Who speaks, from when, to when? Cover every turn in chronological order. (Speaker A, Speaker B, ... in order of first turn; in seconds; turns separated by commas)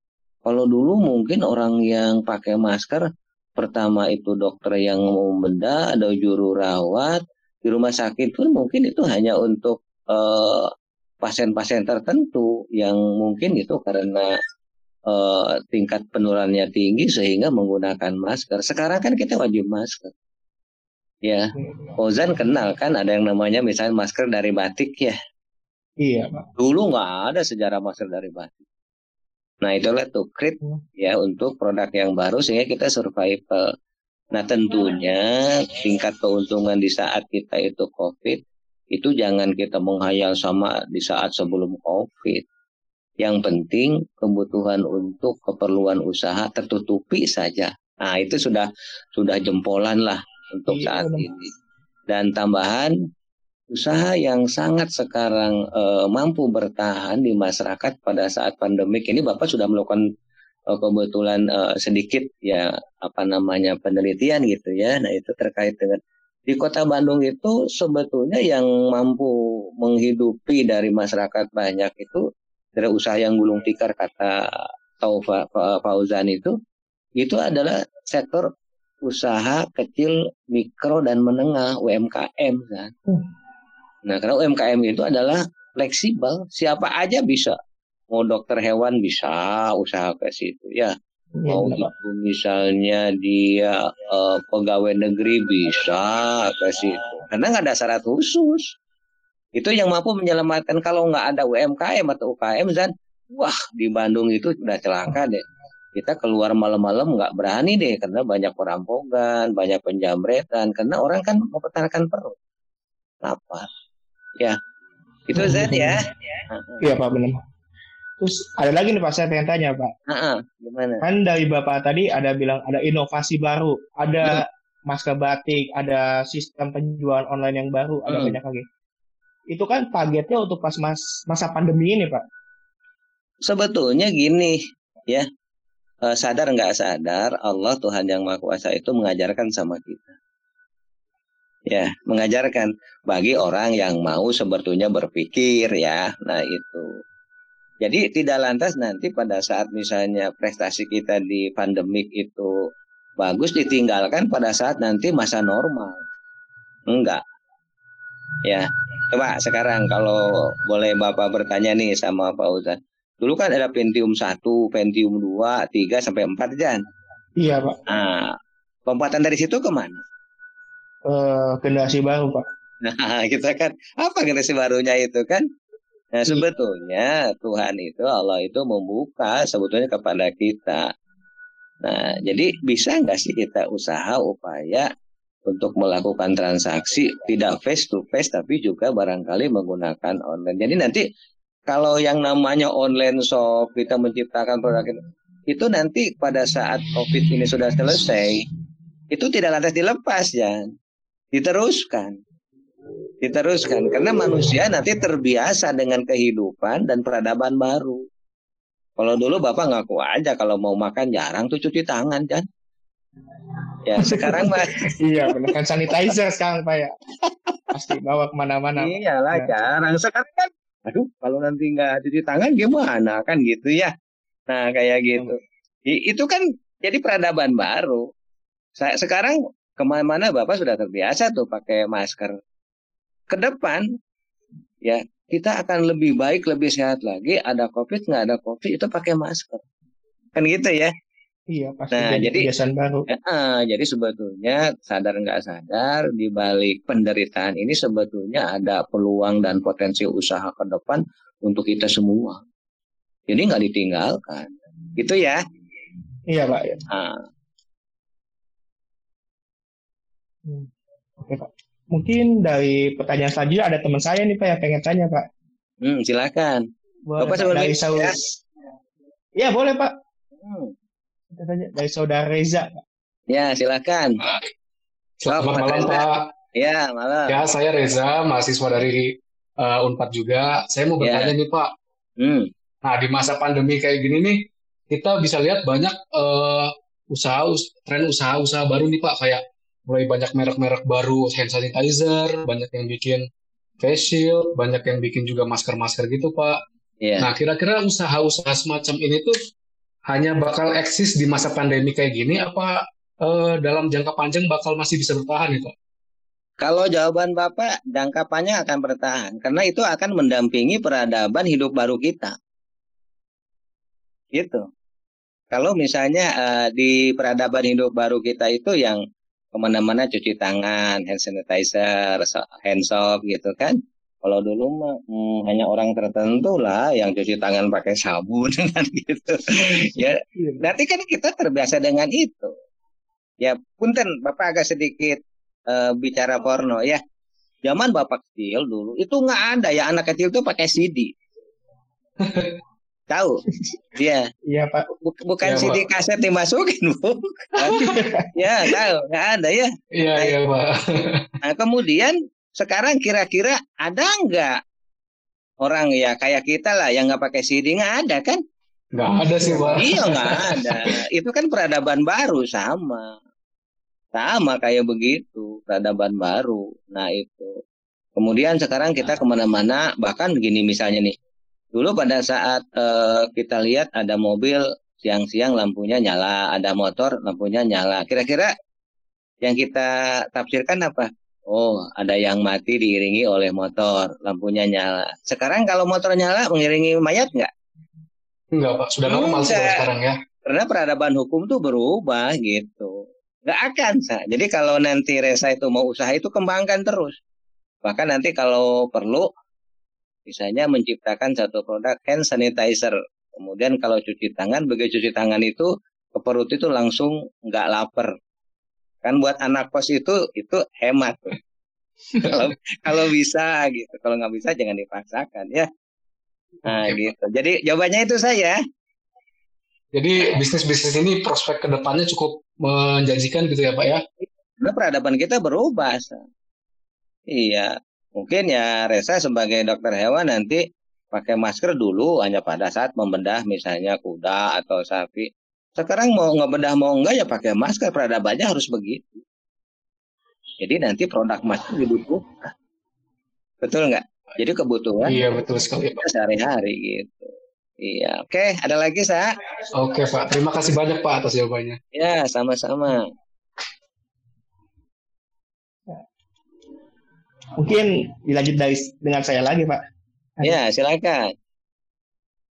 Speaker A: 0.5-10.7, Speaker A: 11.2-14.3, Speaker A: 15.1-20.1, Speaker A: 21.2-25.2, Speaker B: 26.0-26.5, Speaker A: 26.6-28.6, Speaker A: 29.6-33.7, Speaker A: 34.3-42.5, Speaker A: 43.2-51.5, Speaker B: 50.7-51.3, Speaker A: 52.1-52.9, Speaker A: 53.7-60.0, Speaker A: 60.7-74.5, Speaker A: 75.0-76.5, Speaker A: 77.2-78.5, Speaker A: 79.0-82.9, Speaker A: 84.1-87.6, Speaker A: 88.1-91.0, Speaker B: 91.4-91.9, Speaker A: 91.5-98.7, Speaker A: 99.5-105.4, Speaker A: 105.9-112.4, Speaker A: 113.2-113.7, Speaker A: 115.3-116.8, Speaker B: 115.3-116.0, Speaker B: 116.8-117.4, Speaker B: 118.2-119.9, Speaker A: 120.1-121.0, Speaker B: 121.0-128.7, Speaker A: 128.1-128.4, Speaker B: 129.5-132.2, Speaker A: 133.4-135.3, Speaker A: 136.1-140.2, Speaker A: 141.7-146.9, Speaker A: 147.8-152.6, Speaker A: 153.2-156.0, Speaker A: 156.9-157.2, Speaker A: 158.4-166.8, Speaker B: 167.4-167.8, Speaker A: 167.9-168.3, Speaker A: 168.9-170.0, Speaker B: 171.1-172.4, Speaker A: 172.8-175.4, Speaker A: 176.1-180.9, Speaker A: 181.8-184.9, Speaker A: 185.5-191.1, Speaker A: 191.7-198.5, Speaker A: 199.1-200.6, Speaker A: 201.3-202.2, Speaker A: 203.2-208.1, Speaker A: 209.0-212.5, Speaker A: 213.8-214.9, Speaker B: 214.0-216.9, Speaker A: 217.2-217.6, Speaker B: 217.7-219.5, Speaker A: 218.8-223.9, Speaker A: 224.5-228.1, Speaker A: 228.8-232.4, Speaker A: 233.3-233.8, Speaker A: 234.8-239.6, Speaker A: 240.3-240.9, Speaker B: 241.5-243.1, Speaker A: 241.9-242.5, Speaker A: 243.1-252.4, Speaker A: 253.3-255.4, Speaker B: 256.3-256.8, Speaker A: 256.9-257.2, Speaker B: 261.2-265.2, Speaker A: 265.8-266.6, Speaker B: 267.1-268.4, Speaker A: 267.2-268.1, Speaker B: 269.4-269.9, Speaker A: 270.4-270.7, Speaker B: 271.4-272.8, Speaker A: 273.3-274.2, Speaker C: 275.2-276.3, Speaker A: 275.3-277.4, Speaker C: 277.3-281.7, Speaker A: 281.0-281.3, Speaker A: 282.2-282.5, Speaker C: 282.8-293.3, Speaker C: 293.8-296.6, Speaker A: 297.0-297.3, Speaker C: 297.2-299.4, Speaker C: 300.1-305.7, Speaker A: 306.6-312.4, Speaker A: 314.3-314.7, Speaker A: 315.5-319.0, Speaker A: 319.5-332.5, Speaker B: 330.4-330.6, Speaker A: 333.4-337.0, Speaker A: 337.6-341.1, Speaker C: 342.2-342.5, Speaker A: 343.1-343.4, Speaker A: 343.9-344.3, Speaker B: 344.5-344.9, Speaker A: 345.0-350.4, Speaker C: 345.4-345.9, Speaker B: 347.7-348.3, Speaker C: 349.9-351.3, Speaker A: 351.4-354.6, Speaker A: 355.6-358.4, Speaker C: 358.9-360.9, Speaker A: 359.6-363.2, Speaker A: 364.1-367.6, Speaker A: 368.2-371.2, Speaker A: 371.7-378.5, Speaker A: 379.4-387.5, Speaker C: 388.5-390.2, Speaker A: 389.0-389.8, Speaker A: 390.4-397.2, Speaker A: 397.8-399.3, Speaker A: 400.3-408.1, Speaker A: 409.0-411.4, Speaker A: 412.2-415.7, Speaker A: 416.6-418.6, Speaker C: 419.9-424.0, Speaker A: 424.2-426.2, Speaker A: 427.3-439.2, Speaker A: 440.6-442.5, Speaker A: 443.6-449.3, Speaker C: 445.0-446.0, Speaker C: 449.7-451.8, Speaker A: 451.9-453.1, Speaker B: 457.6-459.8, Speaker A: 460.4-461.3